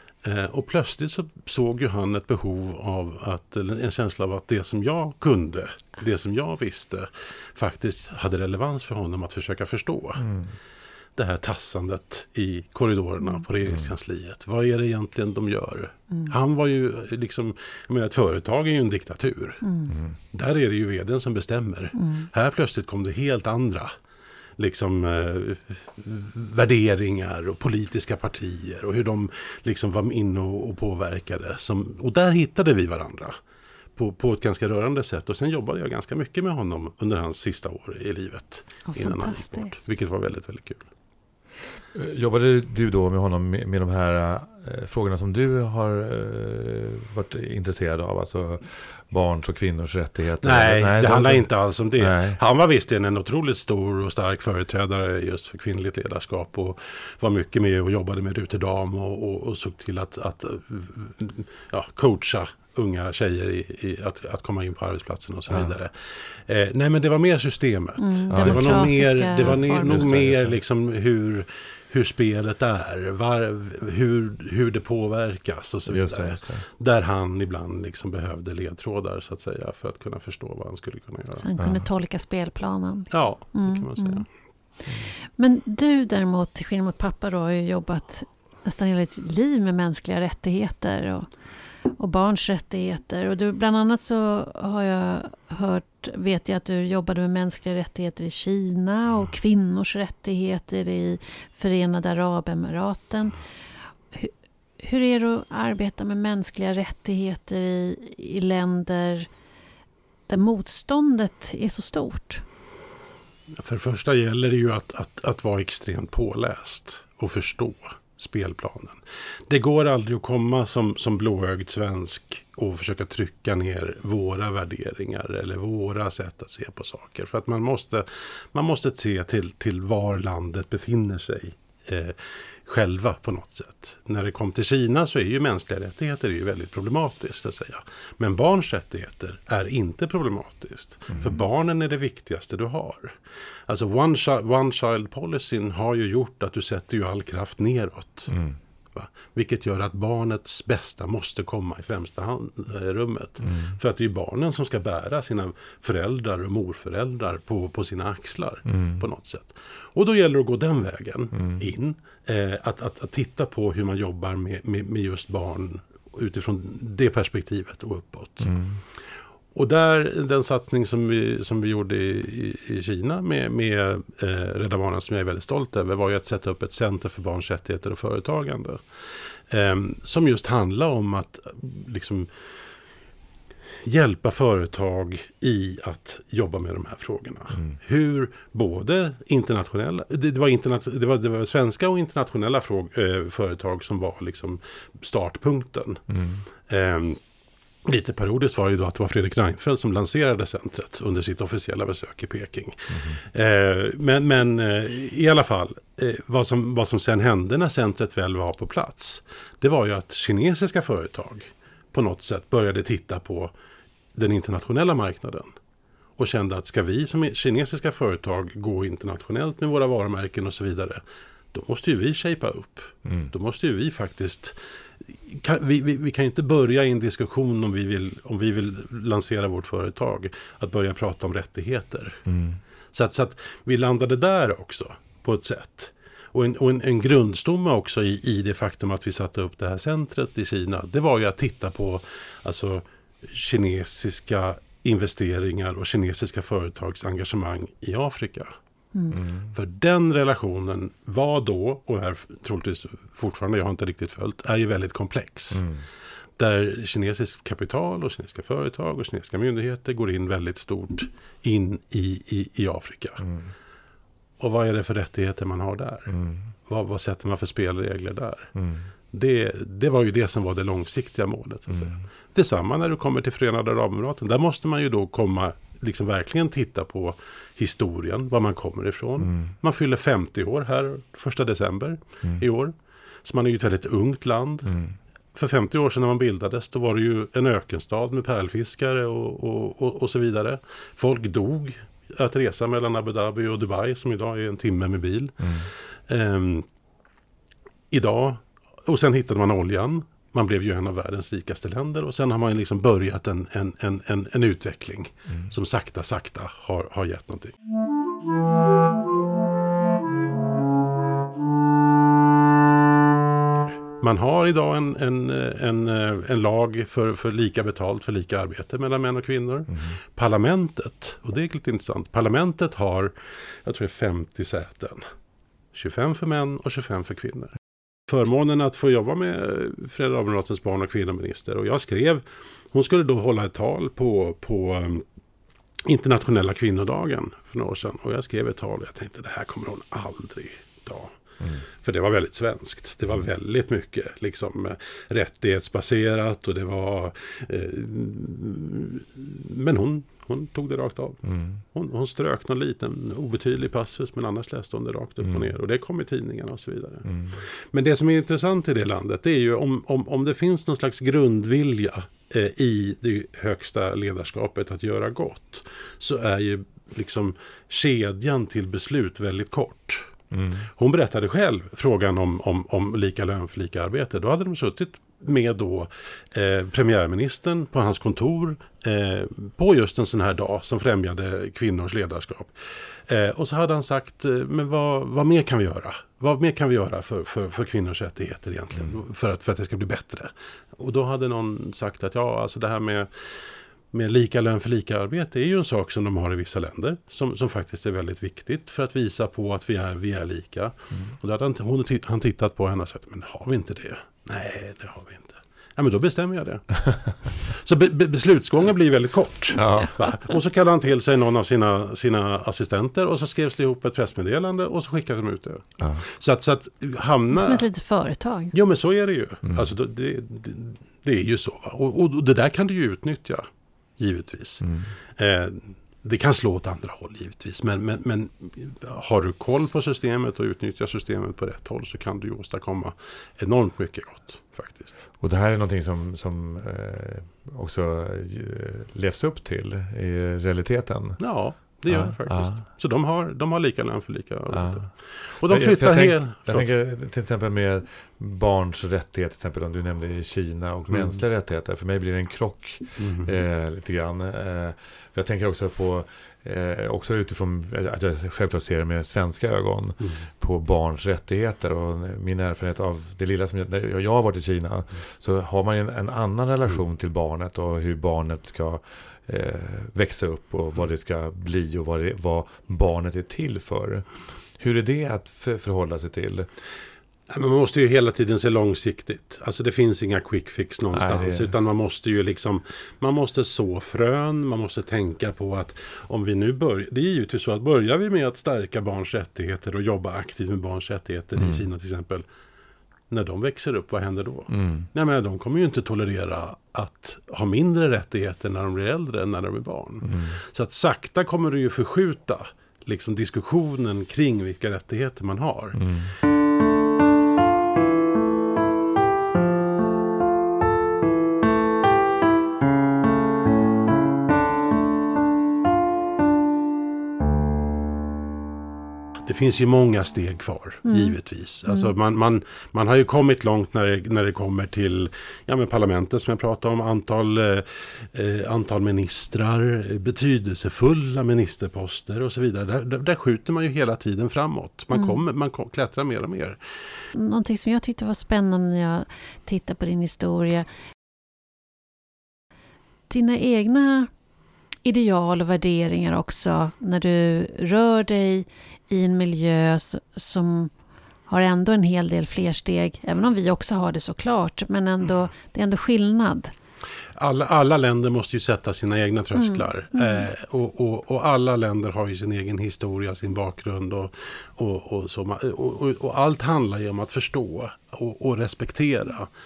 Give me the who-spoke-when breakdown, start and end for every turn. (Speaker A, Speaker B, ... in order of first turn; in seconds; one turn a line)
Speaker A: 0.2-10.3
Speaker B: 10.2-10.5
Speaker A: 11.2-19.6
Speaker C: 19.6-20.0
Speaker A: 20.3-23.9
Speaker C: 21.9-22.3
Speaker A: 24.6-33.3
Speaker A: 34.0-40.9
Speaker C: 38.9-39.8
Speaker B: 41.9-52.4
Speaker A: 50.4-81.5
Speaker B: 65.5-65.7
Speaker C: 68.0-70.0
Speaker B: 68.3-70.6
Speaker B: 75.9-76.6
Speaker C: 81.4-84.2
Speaker B: 81.6-81.9
Speaker A: 83.1-84.3
Speaker C: 84.9-91.3
Speaker C: 91.8-103.4
Speaker C: 104.1-109.3
Speaker C: 110.3-112.4
Speaker A: 113.6-143.2
Speaker A: 143.7-148.3
Speaker B: 148.3-148.6
Speaker A: 148.9-168.5
Speaker B: 153.4-153.8
Speaker B: 158.7-159.0
Speaker B: 161.3-161.6
Speaker B: 168.4-168.8
Speaker A: 169.5-178.8
Speaker A: 179.5-182.3
Speaker A: 183.8-196.0
Speaker B: 196.1-196.4
Speaker A: 196.7-197.2
Speaker A: 197.8-213.5
Speaker B: 202.9-203.2
Speaker A: 214.1-215.5
Speaker A: 216.2-221.0
Speaker A: 221.5-224.6
Speaker B: 223.1-223.3
Speaker A: 225.1-232.2
Speaker B: 232.2-232.6
Speaker A: 232.9-248.5
Speaker C: 248.9-249.2
Speaker B: 249.1-249.5
Speaker A: 249.5-255.7
Speaker B: 255.5-255.8
Speaker A: 256.4-263.2
Speaker B: 263.2-263.5
Speaker A: 264.4-266.1
Speaker B: 266.1-266.4
Speaker A: 266.7-268.5
Speaker B: 268.5-268.9
Speaker A: 269.1-284.8
Speaker B: 279.2-279.5
Speaker B: 284.7-284.9
Speaker A: 285.3-296.6
Speaker B: 295.4-295.7
Speaker A: 297.9-307.5
Speaker B: 305.3-305.5
Speaker A: 313.9-323.1
Speaker B: 319.7-320.0
Speaker A: 323.6-325.1
Speaker A: 325.7-335.0
Speaker A: 335.8-341.2
Speaker A: 341.8-370.1
Speaker B: 351.2-351.6
Speaker B: 357.1-357.4
Speaker B: 370.3-370.7
Speaker A: 370.8-393.4
Speaker A: 393.9-417.7
Speaker B: 409.5-409.9
Speaker C: 409.7-410.1
Speaker C: 417.3-418.5
Speaker A: 418.5-423.5
Speaker A: 424.0-434.9
Speaker B: 424.6-424.9
Speaker B: 435.2-441.2
Speaker A: 441.2-446.7
Speaker B: 441.9-442.6
Speaker B: 444.5-444.9
Speaker B: 445.4-474.1
Speaker A: 450.9-451.2
Speaker A: 453.0-453.3
Speaker B: 474.6-476.5
Speaker A: 477.3-492.2
Speaker B: 480.9-481.5
Speaker B: 491.4-491.6
Speaker A: 493.1-505.8
Speaker B: 494.5-494.9
Speaker B: 500.0-500.4
Speaker B: 505.7-506.1
Speaker A: 519.2-536.6
Speaker C: 520.8-521.1
Speaker C: 534.9-535.2
Speaker C: 537.1-540.7
Speaker C: 543.1-544.1
Speaker C: 544.8-550.7
Speaker C: 551.3-556.5
Speaker A: 557.2-569.3
Speaker C: 559.3-560.3